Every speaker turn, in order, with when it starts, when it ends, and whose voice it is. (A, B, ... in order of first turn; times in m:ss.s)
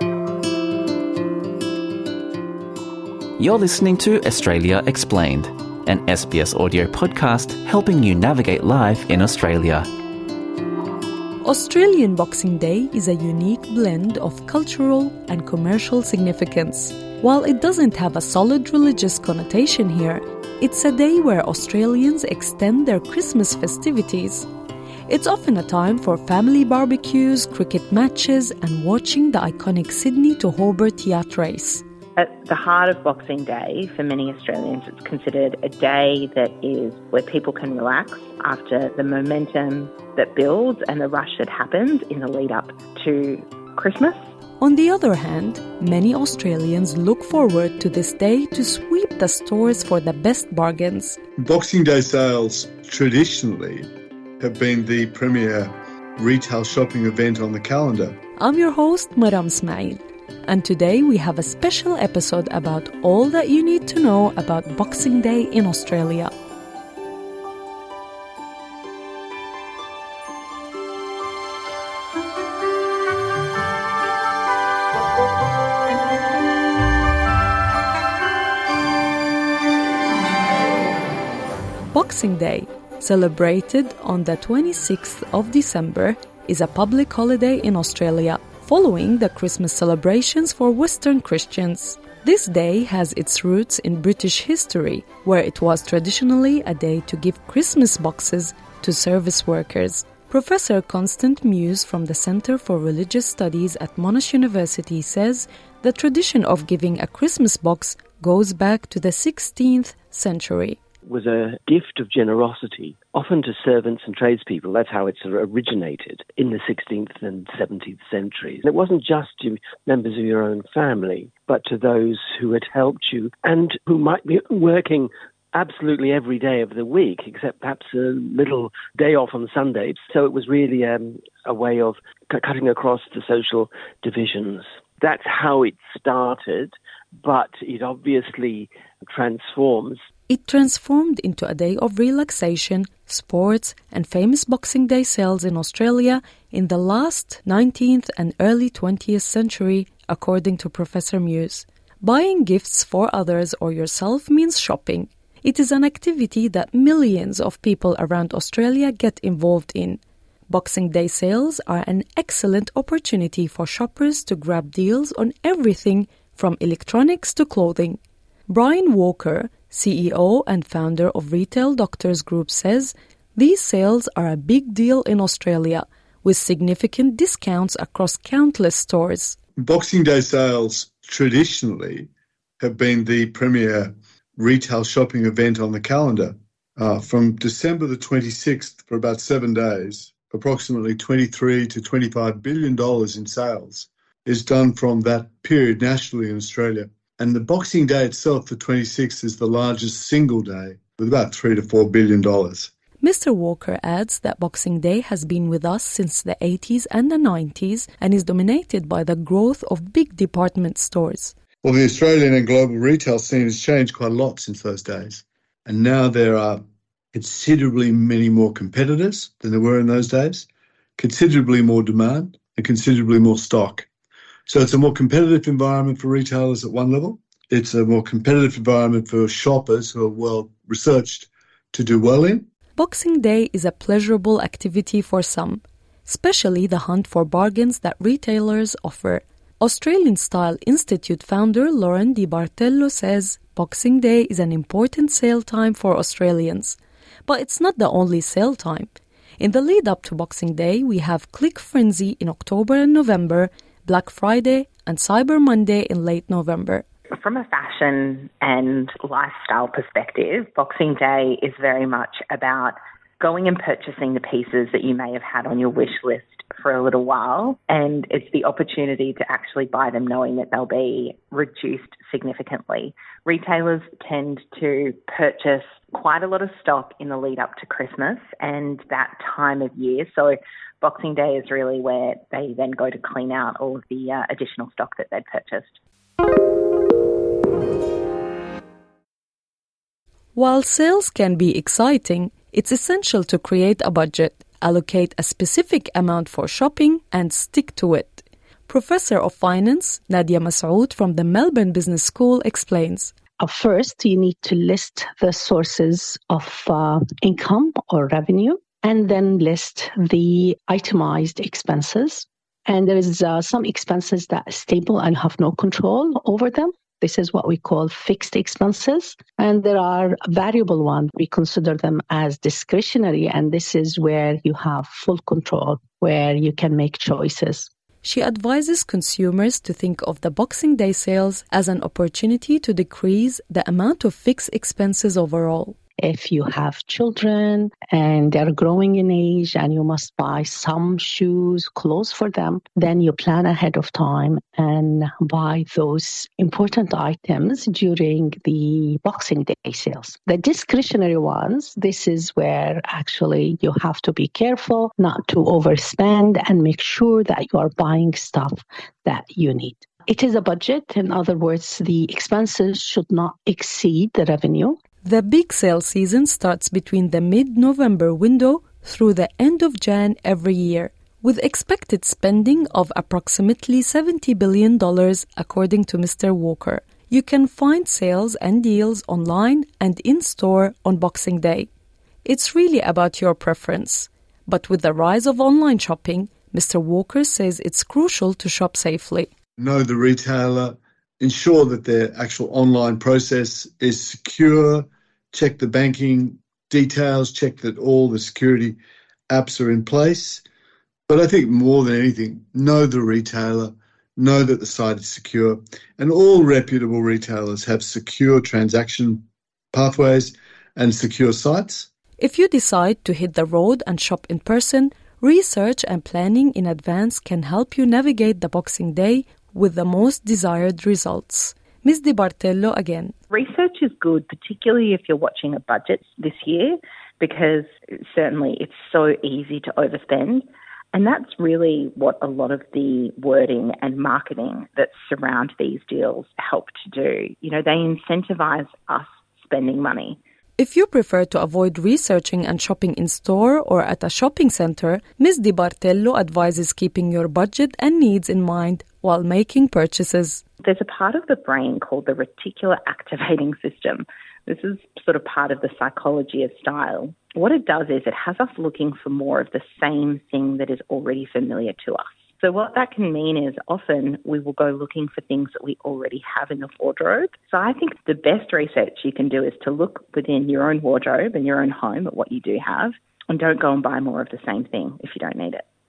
0:03.4-0:09.9 A
0:11.4-0:24.5 B
0:25.1-0:31.8 B
0:32.2-0:44.2 C
0:44.6-0:51.2 B
0:51.4-0:53.9 D
0:54.4-0:58.2 D
0:58.4-1:06.3 B
1:21.9-1:50.8 B
1:51.1-2:20.0 E
2:20.3-2:59.4 B
2:59.6-3:02.1 D
3:02.6-3:22.7 D
3:23.0-3:31.3 B
3:31.6-3:36.6 D
3:37.1-3:40.5 D
3:41.0-3:43.9 D
3:44.5-3:52.5 D
3:52.8-4:16.8 B
4:17.2-4:45.8 C
4:50.3-5:03.1 B
5:03.4-5:27.7 F
5:28.0-5:35.8 B
5:36.0-6:04.8 F
6:05.0-6:21.7 B
6:22.2-6:29.3 B
6:29.6-6:38.8 D
6:39.3-6:40.4 D
6:41.1-6:51.9 D
6:52.2-7:03.1 B
7:03.3-7:20.2 C
7:20.6-7:30.4 B
7:30.6-7:55.6 C